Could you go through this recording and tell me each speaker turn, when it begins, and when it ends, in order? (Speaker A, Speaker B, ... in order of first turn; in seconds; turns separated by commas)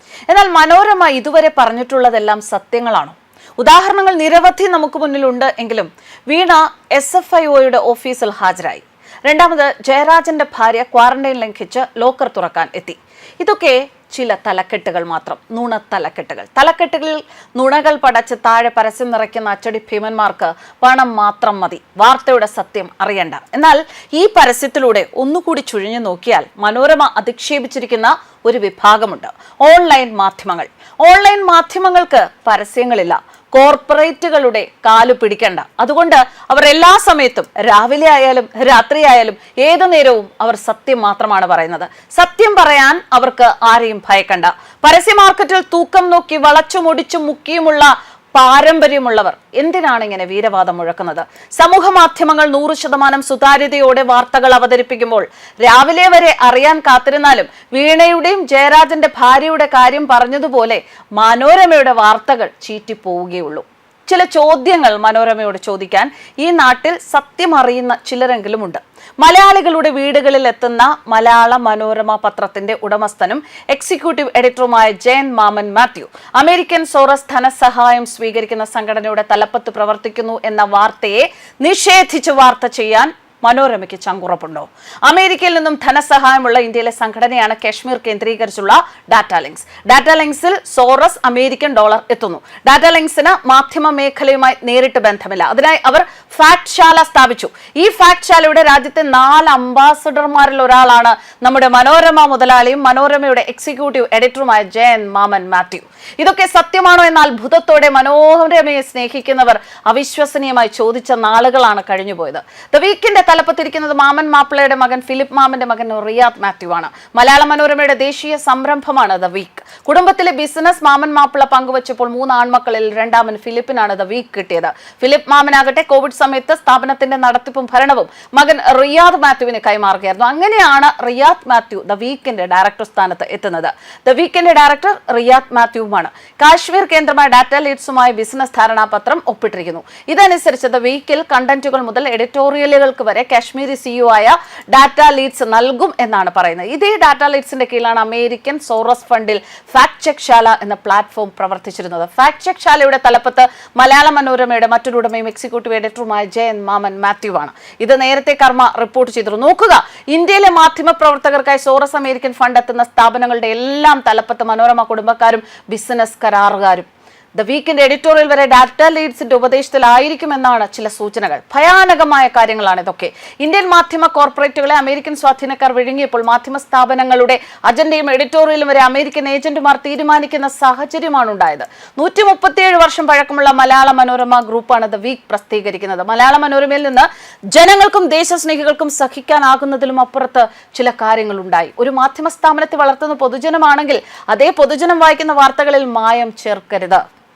Speaker A: 0.3-197.0